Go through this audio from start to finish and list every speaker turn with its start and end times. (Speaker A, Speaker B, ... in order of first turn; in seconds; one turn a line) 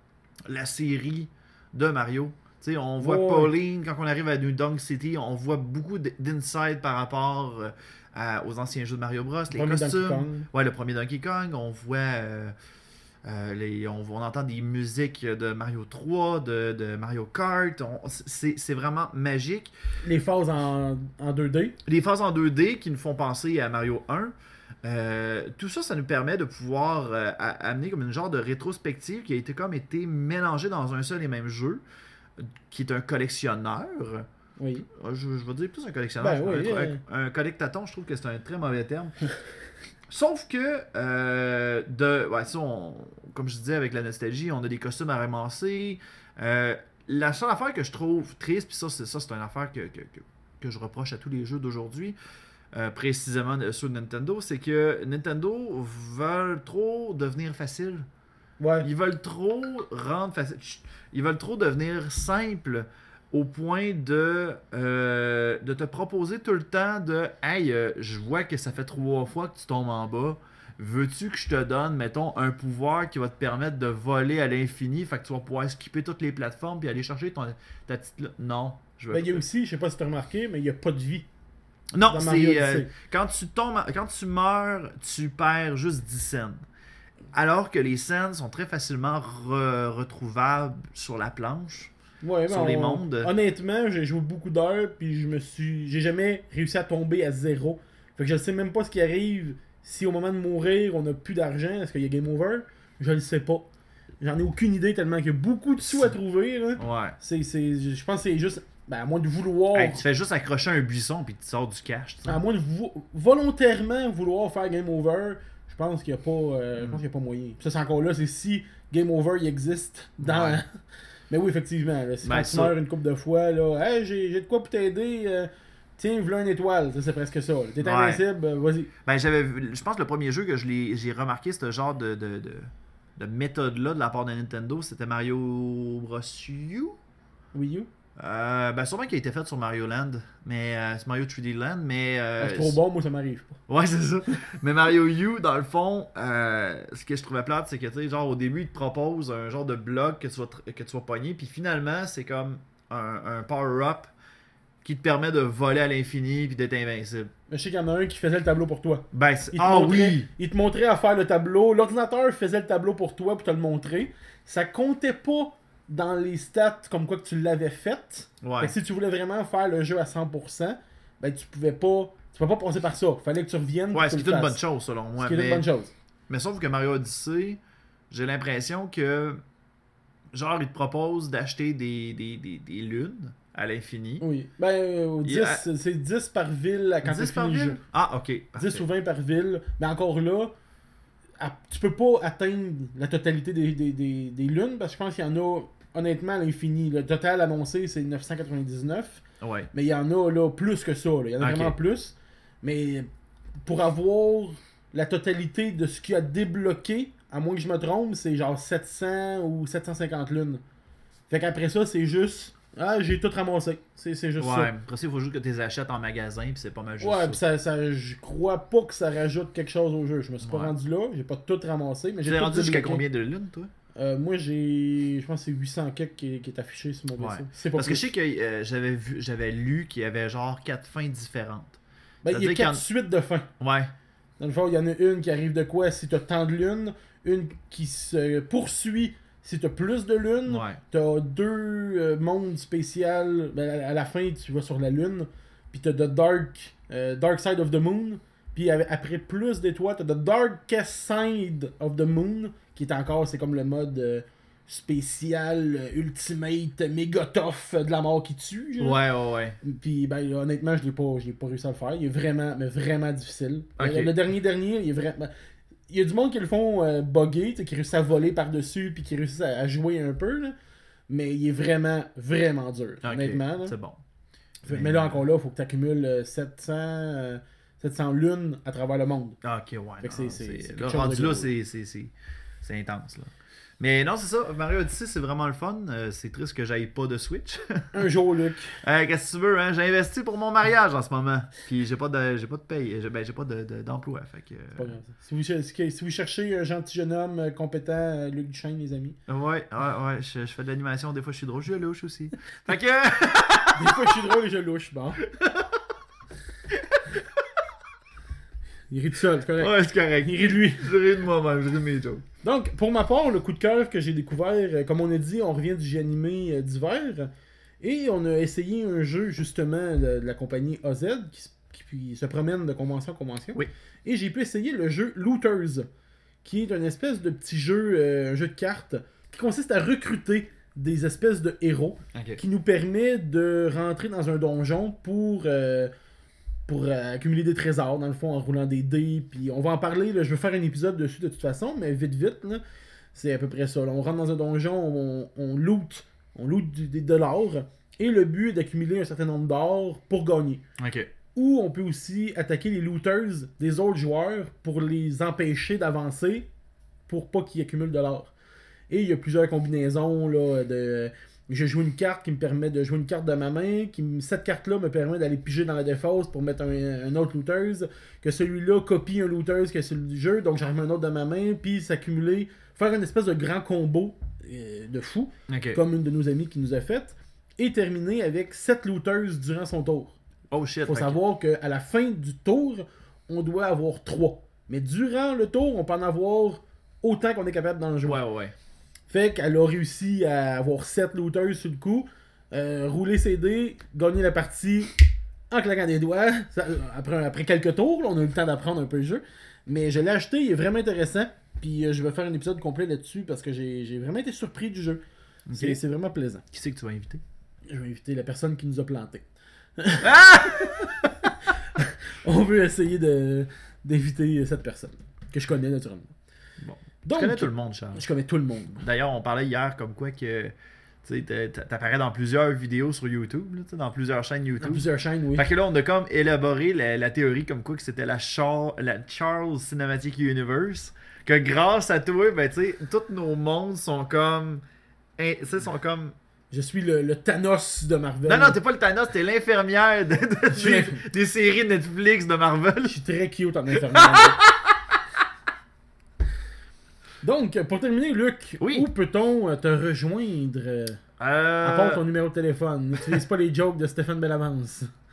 Speaker A: 0.5-12.5
Speaker B: 3.0-3.5
Speaker B: 9.5-10.5
Speaker A: 13.2-19.7
Speaker B: 20.0-21.8
Speaker A: 21.8-24.3
Speaker A: 24.8-31.8
Speaker A: 32.4-34.3
Speaker B: 34.6-34.9
Speaker A: 34.9-39.1
Speaker B: 36.2-37.0
Speaker A: 40.1-52.1
Speaker A: 52.7-58.1
Speaker B: 58.6-58.9
Speaker A: 58.8-79.4
Speaker B: 79.1-81.3
Speaker A: 81.9-86.6
Speaker B: 82.1-82.9
Speaker A: 87.3-91.9
Speaker B: 92.2-103.7
Speaker A: 92.5-93.3
Speaker B: 104.2-110.0
Speaker A: 105.8-106.1
Speaker A: 106.8-107.2
Speaker A: 109.7-112.4
Speaker B: 112.2-120.7
Speaker A: 120.2-120.6
Speaker B: 121.3-128.9
Speaker A: 122.2-122.7
Speaker A: 127.8-128.2
Speaker A: 129.0-137.0
Speaker B: 137.5-137.9
Speaker A: 138.2-142.8
Speaker B: 142.4-143.6
Speaker A: 143.7-154.1
Speaker A: 154.8-157.3
Speaker B: 157.5-174.6
Speaker A: 159.1-160.3
Speaker A: 168.4-168.7
Speaker A: 173.9-175.7
Speaker B: 175.2-175.9
Speaker A: 176.3-177.6
Speaker A: 178.1-179.4
Speaker A: 180.3-184.2
Speaker B: 184.2-187.8
Speaker A: 185.2-185.6
Speaker A: 187.0-188.8
Speaker B: 188.6-190.5
Speaker B: 191.4-199.2
Speaker A: 199.4-199.7
Speaker B: 199.7-203.1
Speaker A: 201.4-201.7
Speaker B: 203.7-210.6
Speaker B: 211.3-214.7
Speaker A: 214.4-217.4
Speaker B: 217.0-223.0
Speaker A: 220.4-220.7
Speaker A: 222.2-223.7
Speaker B: 223.9-228.0
Speaker A: 227.2-232.8
Speaker B: 232.2-233.5
Speaker A: 233.6-233.9
Speaker B: 234.4-259.0
Speaker A: 240.4-240.8
Speaker A: 258.8-259.6
Speaker B: 259.6-265.3
Speaker A: 263.8-264.1
Speaker B: 265.9-270.5
Speaker B: 271.1-273.8
Speaker A: 273.0-274.0
Speaker B: 274.6-279.4
Speaker A: 274.7-275.2
Speaker A: 279.4-288.1
Speaker B: 280.0-281.5
Speaker B: 287.9-288.8
Speaker A: 288.8-294.9
Speaker B: 294.8-299.2
Speaker A: 299.3-304.1
Speaker B: 303.7-305.2
Speaker A: 305.2-305.8
Speaker A: 306.7-307.6
Speaker B: 308.9-310.9
Speaker A: 309.6-312.2
Speaker B: 312.4-317.3
Speaker B: 317.8-325.9
Speaker B: 326.4-335.9
Speaker A: 332.1-332.4
Speaker B: 336.7-342.6
Speaker B: 343.1-350.6
Speaker A: 350.8-351.1
Speaker B: 351.3-356.5
Speaker B: 357.1-358.3
Speaker B: 358.9-380.2
Speaker A: 375.5-375.8
Speaker A: 380.5-381.2
Speaker B: 380.8-388.2
Speaker A: 388.0-388.5
Speaker B: 389.1-394.9
Speaker B: 395.5-405.0
Speaker A: 405.5-405.8
Speaker B: 405.5-406.4
Speaker A: 406.5-407.2
Speaker B: 407.7-409.2
Speaker B: 409.8-410.2
Speaker A: 410.0-411.3
Speaker B: 411.7-416.1
Speaker A: 416.6-418.0
Speaker B: 417.0-418.8
Speaker A: 418.8-434.6
Speaker B: 424.6-425.5
Speaker A: 435.2-436.1
Speaker B: 436.5-438.6
Speaker A: 438.2-443.0
Speaker B: 440.5-441.0
Speaker B: 442.8-444.4
Speaker A: 443.9-445.0
Speaker B: 447.2-451.0
Speaker A: 448.6-448.9
Speaker A: 451.2-452.0
Speaker B: 451.6-454.9